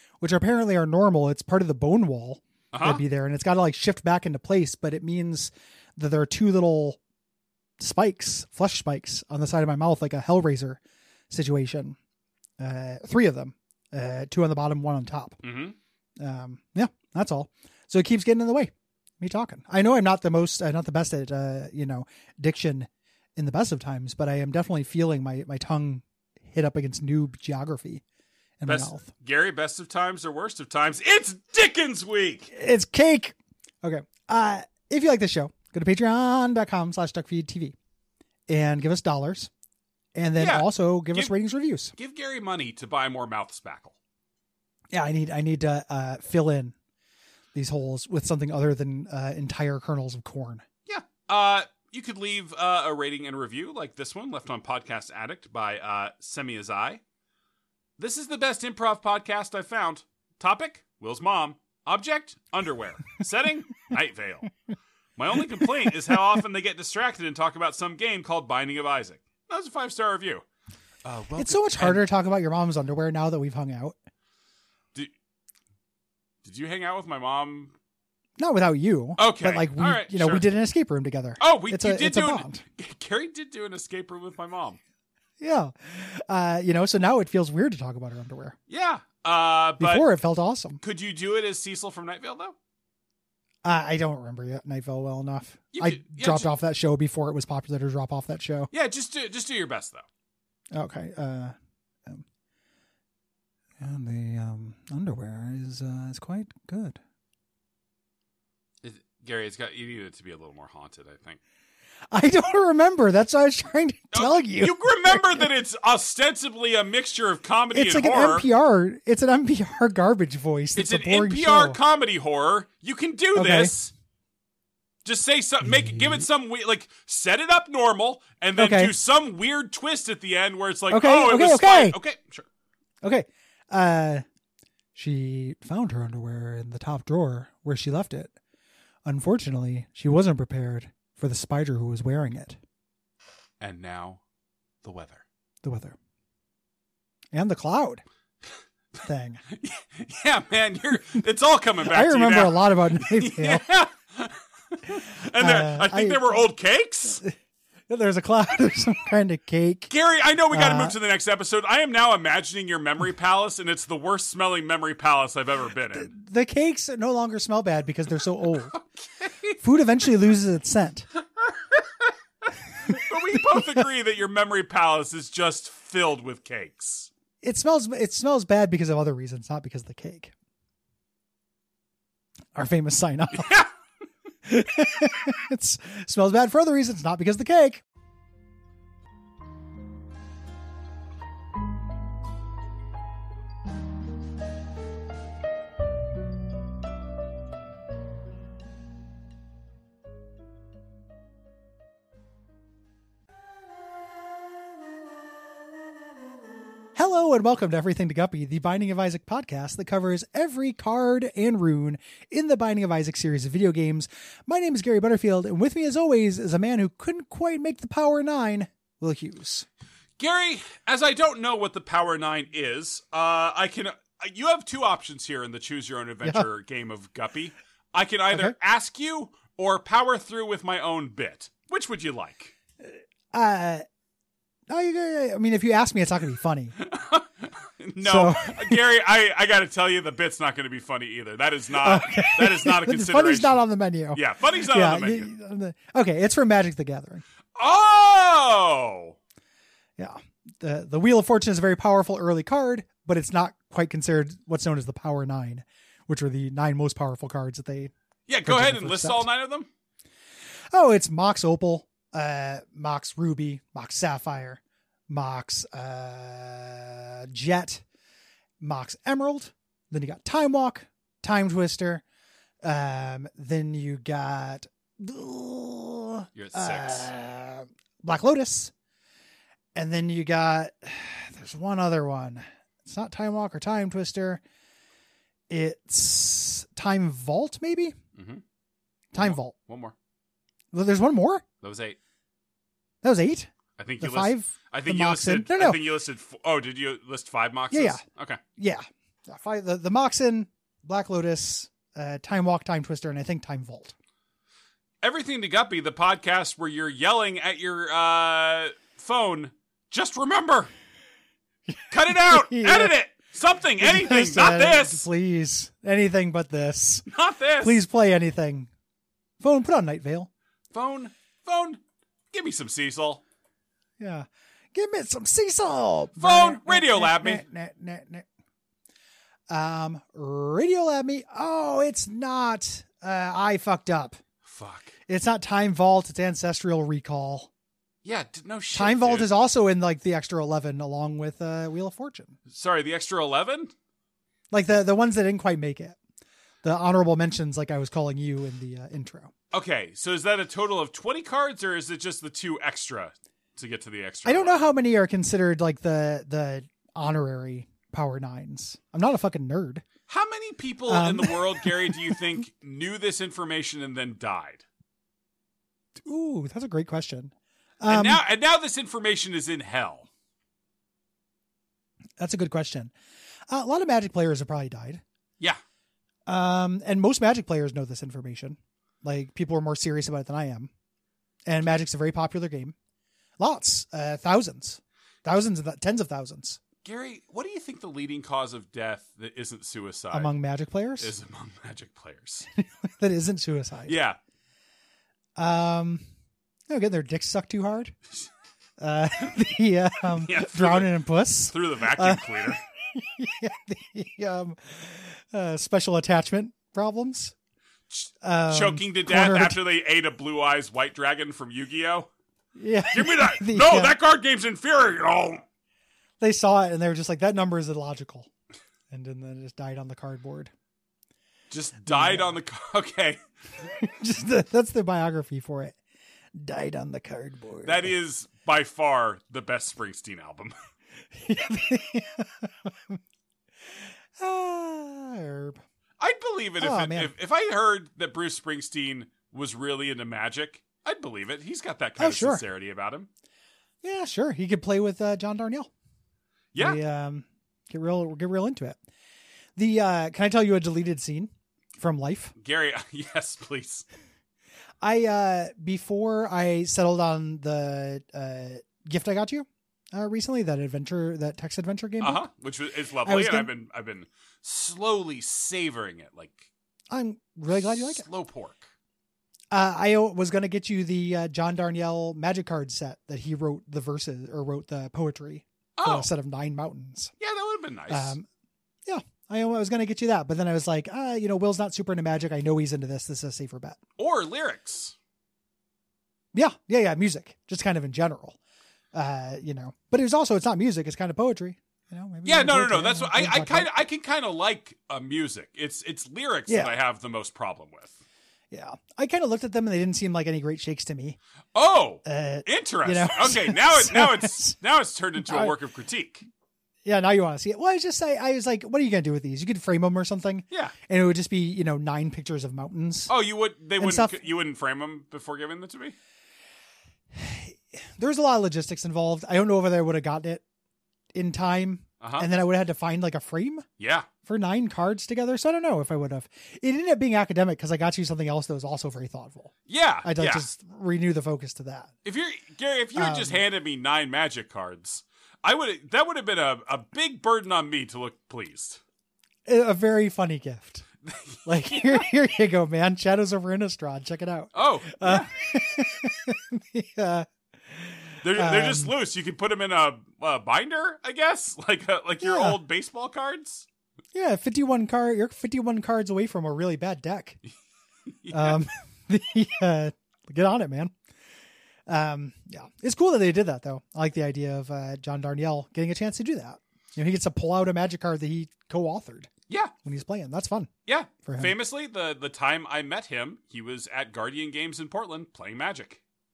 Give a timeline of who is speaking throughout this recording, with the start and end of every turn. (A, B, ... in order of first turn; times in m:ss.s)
0:00.2-0:07.0 A
0:02.7-0:03.0 B
0:07.8-0:12.0 A
0:12.6-0:15.4 A
0:15.4-0:15.8 B
0:16.2-0:28.0 A
0:28.6-0:29.1 A
0:28.6-0:32.5 B
0:32.5-0:37.8 A
0:38.5-0:39.5 A
0:40.1-0:41.9 A
0:40.4-0:41.3 B
0:42.0-0:44.0 B
0:44.9-0:46.7 A
0:47.5-0:50.6 A
0:50.9-0:57.0 B
0:58.0-1:04.5 B
1:05.2-1:10.4 B
1:11.0-1:12.0 B
1:11.4-1:13.9 A
1:16.4-1:17.7 B
1:18.4-1:22.6 A
1:19.2-1:20.4 B
1:21.4-1:24.8 B
1:25.4-1:28.6 A
1:28.7-1:30.1 B
1:29.8-1:30.8 A
1:30.8-1:32.5 B
1:33.6-1:38.7 A
1:35.7-1:36.5 B
1:38.7-1:40.0 B
1:40.7-1:41.5 A
1:43.8-1:47.0 A
1:48.8-1:51.4 B
1:52.1-1:55.5 A
1:54.1-1:58.5 B
1:57.7-2:01.8 A
2:00.7-2:03.9 B
2:03.3-2:03.7 A
2:05.0-2:12.4 B
2:05.6-2:06.2 A
2:08.6-2:08.9 A
2:10.9-2:12.0 A
2:13.0-2:14.2 A
2:14.9-2:18.3 A
2:19.0-2:22.6 A
2:23.6-2:24.2 B
2:24.8-2:25.2 B
2:25.6-2:26.0 A
2:27.3-2:28.0 A
2:29.0-2:29.4 A
2:29.5-2:37.2 B
2:31.8-2:33.6 A
2:35.4-2:36.2 A
2:37.9-2:39.9 A
2:39.9-2:46.1 B
2:40.5-2:40.9 A
2:45.9-2:48.7 A
2:48.7-2:49.6 B
2:49.6-2:51.1 A
2:51.4-2:57.1 B
2:53.3-2:53.8 A
2:57.4-3:00.3 A
3:02.5-3:03.5 A
3:03.3-3:03.7 B
3:04.4-3:07.8 A
3:26.9-3:39.6 A
3:40.2-3:52.5 B
3:52.8-3:53.8 A
3:54.7-3:56.8 A
3:56.8-4:03.6 B
3:58.0-3:58.8 A
4:01.7-4:07.2 A
4:04.1-4:05.3 B
4:07.6-4:09.2 B
4:10.0-4:17.9 A
4:18.3-4:19.7 B
4:18.4-4:19.3 A
4:20.7-4:27.8 A
4:28.6-4:32.0 A
4:32.6-4:38.7 A
4:36.3-4:37.1 B
4:39.7-4:44.4 A
4:45.5-4:48.0 A
4:48.1-4:48.4 B
4:49.1-4:49.5 A
4:49.2-4:49.9 B
4:50.7-4:51.4 A
4:51.6-4:52.0 B
4:53.0-4:55.8 A
4:53.8-4:58.4 B
4:57.7-4:58.0 A
4:58.6-5:03.9 A
5:05.0-5:10.7 B
5:11.7-5:12.9 A
5:11.9-5:15.0 B
5:13.8-5:17.1 A
5:17.1-5:17.8 B
5:17.6-5:18.7 A
5:19.4-5:20.3 A
5:20.7-5:21.8 B
5:22.3-5:23.2 B
5:24.0-5:28.2 A
5:26.2-5:27.4 B
5:29.5-5:34.2 A
5:34.4-5:34.9 B
5:35.1-5:37.5 A
5:38.0-5:39.3 B
5:38.7-5:42.4 A
5:42.5-5:43.7 B
5:44.5-5:46.0 A
5:46.6-5:49.3 A
5:49.5-5:54.7 B
5:54.2-5:59.8 A
6:00.1-6:04.6 B
6:00.9-6:02.2 A
6:06.0-6:08.2 A
6:07.9-6:10.1 B
6:12.2-6:12.9 A
6:13.5-6:15.0 A
6:16.2-6:20.7 A
6:21.4-6:22.7 A
6:23.4-6:26.6 A
6:26.8-6:30.3 B
6:30.1-6:31.1 A
6:31.0-6:32.5 B
6:32.6-6:34.0 A
6:33.9-6:34.2 B
6:35.4-6:36.0 A
6:36.7-6:37.9 A
6:38.8-6:47.3 A
6:40.2-6:40.9 B
6:41.5-6:42.6 B
6:47.9-6:52.1 B
6:48.2-6:49.6 A
6:52.6-6:54.0 A
6:52.9-6:55.4 B
6:56.2-6:58.3 A
6:58.9-7:00.5 A
7:01.5-7:03.2 B
7:01.9-7:02.3 A
7:03.7-7:05.8 A
7:06.3-7:07.9 A
7:07.6-7:10.5 B
7:11.1-7:13.0 A
7:14.2-7:15.6 A
7:16.0-7:23.1 B
7:16.6-7:17.1 A
7:22.0-7:22.4 A
7:23.8-7:25.7 A
7:26.5-7:26.8 B
7:26.6-7:28.8 A
7:29.6-7:32.3 A
7:32.4-7:33.8 B
7:34.8-7:42.3 A
7:42.0-7:46.5 B
7:43.0-7:43.5 A
7:46.9-7:48.0 A
7:47.5-7:48.7 B
7:49.5-7:57.1 A
7:55.8-7:56.1 B
7:57.2-7:58.2 B
7:57.9-7:58.2 A
7:58.8-8:03.8 A
8:04.0-8:04.9 B
8:06.3-8:08.4 A
8:08.9-8:13.7 A
8:12.2-8:18.0 B
8:16.5-8:16.7 A
8:18.5-8:21.2 A
8:21.5-8:26.2 B
8:22.0-8:24.6 A
8:25.2-8:25.5 A
8:26.8-8:33.1 A
8:30.5-8:30.7 B
8:33.1-8:35.9 B
8:33.8-8:34.2 A
8:37.1-8:40.4 A
8:41.1-8:43.6 A
8:42.0-8:42.3 B
8:43.8-8:44.1 B
8:44.2-8:51.9 A
8:49.7-8:50.5 B
8:52.0-8:58.8 B
8:53.0-8:53.4 A
8:59.4-9:00.8 A
9:01.0-9:02.1 B
9:01.4-9:08.9 A
9:04.5-9:05.3 B
9:08.2-9:13.6 B
9:12.2-9:12.6 A
9:14.1-9:17.4 A
9:18.2-9:18.6 B
9:18.3-9:20.9 A
9:21.9-9:29.3 A
9:29.8-9:30.7 A
9:30.8-9:36.0 B
9:31.2-9:31.5 A